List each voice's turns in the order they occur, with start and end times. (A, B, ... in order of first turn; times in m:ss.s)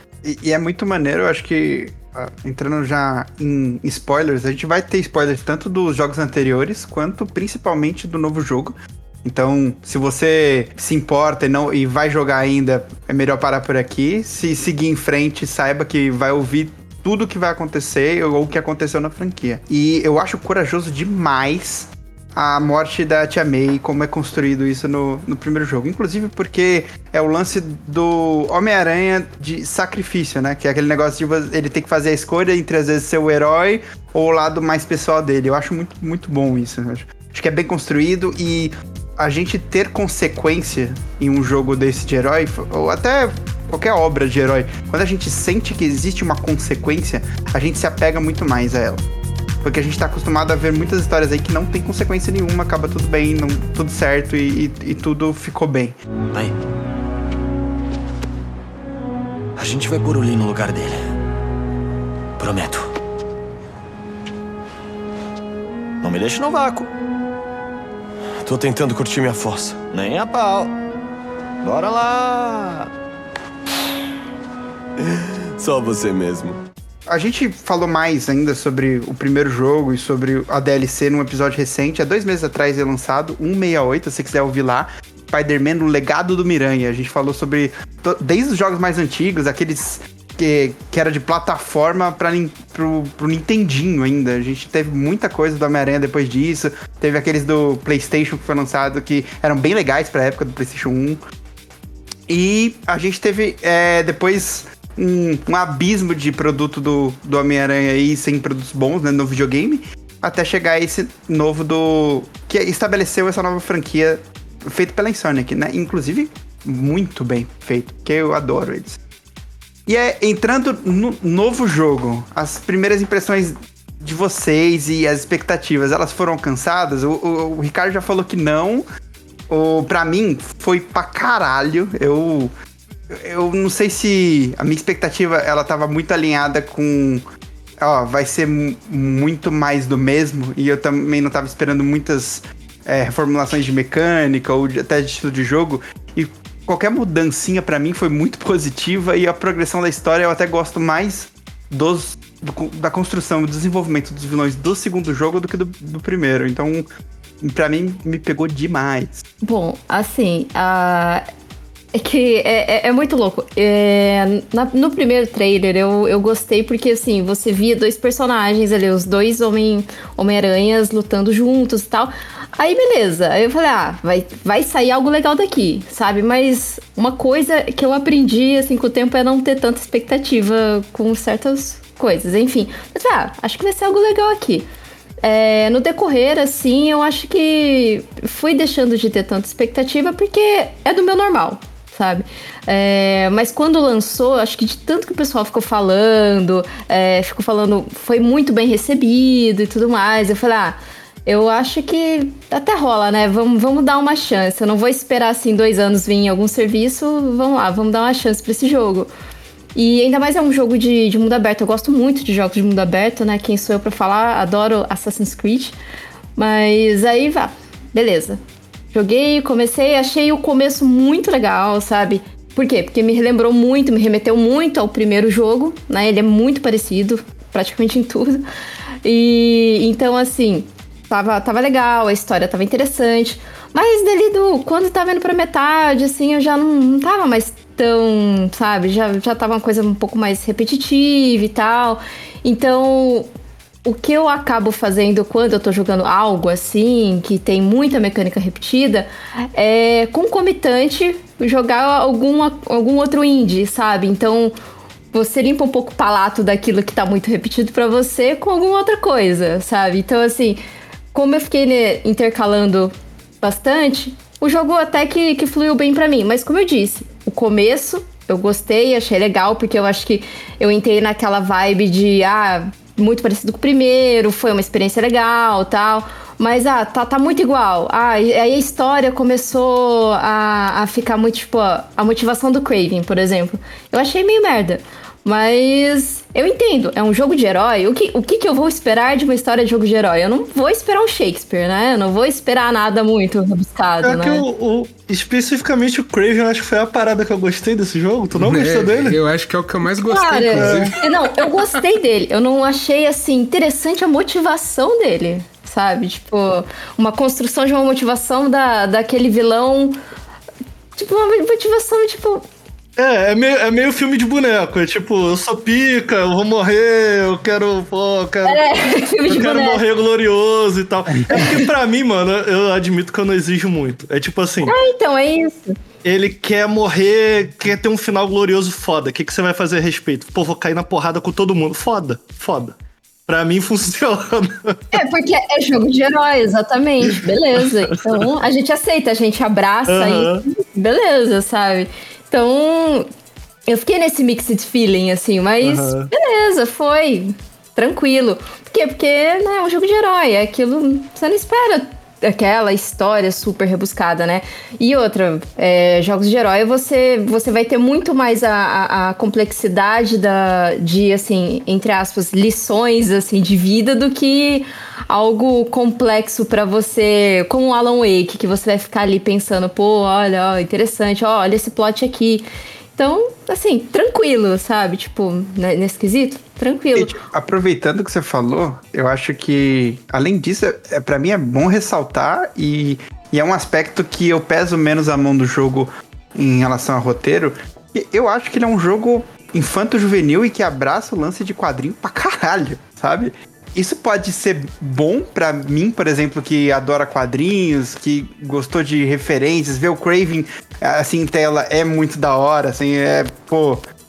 0:00.2-0:49.0 A
0:49.6-0:56.0 A
0:59.6-1:01.0 B
1:02.4-1:02.9 B
1:06.0-1:06.9 B
1:08.4-1:10.7 B
1:11.6-1:12.9 B
1:15.1-1:16.6 B
1:17.1-1:41.2 A
1:42.3-1:59.0 A
1:59.9-2:08.8 A
2:09.5-2:12.5 A
2:13.1-2:17.2 A
2:17.8-2:36.9 A
2:37.4-2:39.2 A
2:39.4-2:41.2 C
2:41.9-3:04.7 C
3:05.2-3:29.1 C
3:29.7-3:35.7 C
3:36.4-3:38.4 C
3:38.9-3:48.4 C
3:49.0-4:03.3 C
4:03.8-4:14.6 C
4:15.1-4:20.6 C
4:21.1-4:54.4 C
4:54.0-4:59.2 D
4:58.3-5:01.0 E
5:00.0-5:10.0 C
5:00.6-5:01.0 D
5:11.0-5:12.4 C
5:13.0-5:18.7 D
5:18.4-5:19.8 C
5:19.3-5:24.7 D
5:24.6-5:25.7 C
5:26.0-5:32.8 D
5:33.3-5:34.8 D
5:34.9-5:43.1 C
5:39.9-5:40.4 D
5:43.7-6:17.2 C
5:45.6-5:46.1 D
6:17.0-6:43.8 A